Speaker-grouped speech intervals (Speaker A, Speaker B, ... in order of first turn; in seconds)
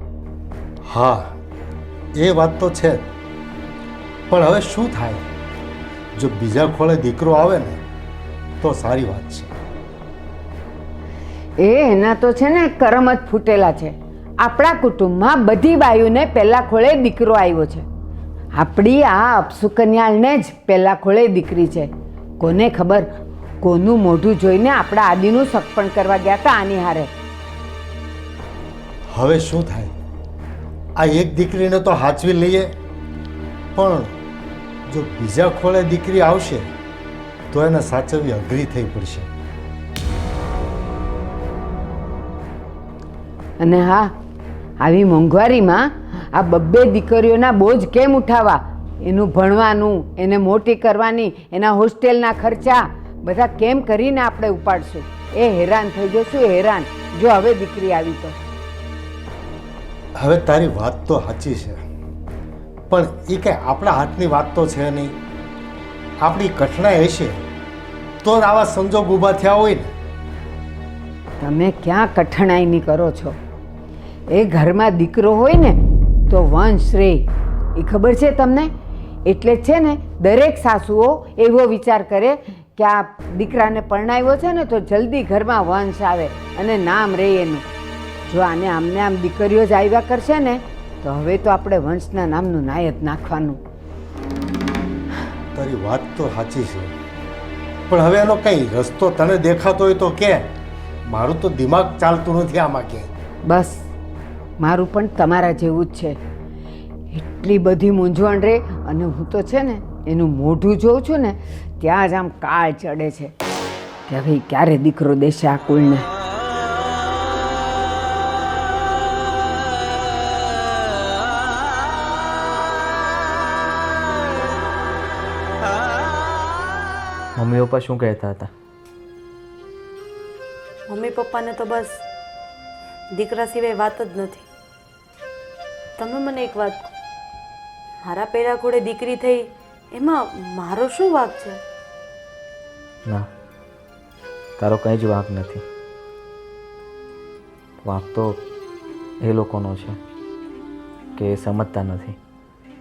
Speaker A: 0.9-1.3, 2.2-3.1, 4.3-5.3, 6.2-7.8, 8.6-9.5, 29.1-29.9, 31.0-32.7, 33.8-34.1, 34.9-36.7, 37.5-39.3, 60.2-61.8, 62.9-65.2, 66.2-67.4, 68.2-69.9, 95.5-97.0, 97.9-100.5, 101.1-103.1
Speaker B: 11.6-17.9, 18.6-23.1, 23.6-27.1, 43.6-44.1, 44.8-58.4, 71.4-73.4, 74.3-75.8, 76.3-77.2, 77.8-78.7, 79.3-87.6, 88.3-93.6, 103.5-103.8, 104.6-106.2, 107.1-113.3, 114.1-116.1
Speaker C: 127.4-128.5, 144.6-145.6, 147.8-148.4, 149.2-150.0, 151.2-152.2
Speaker D: 130.9-132.0, 133.1-134.5, 136.0-136.9, 138.0-141.6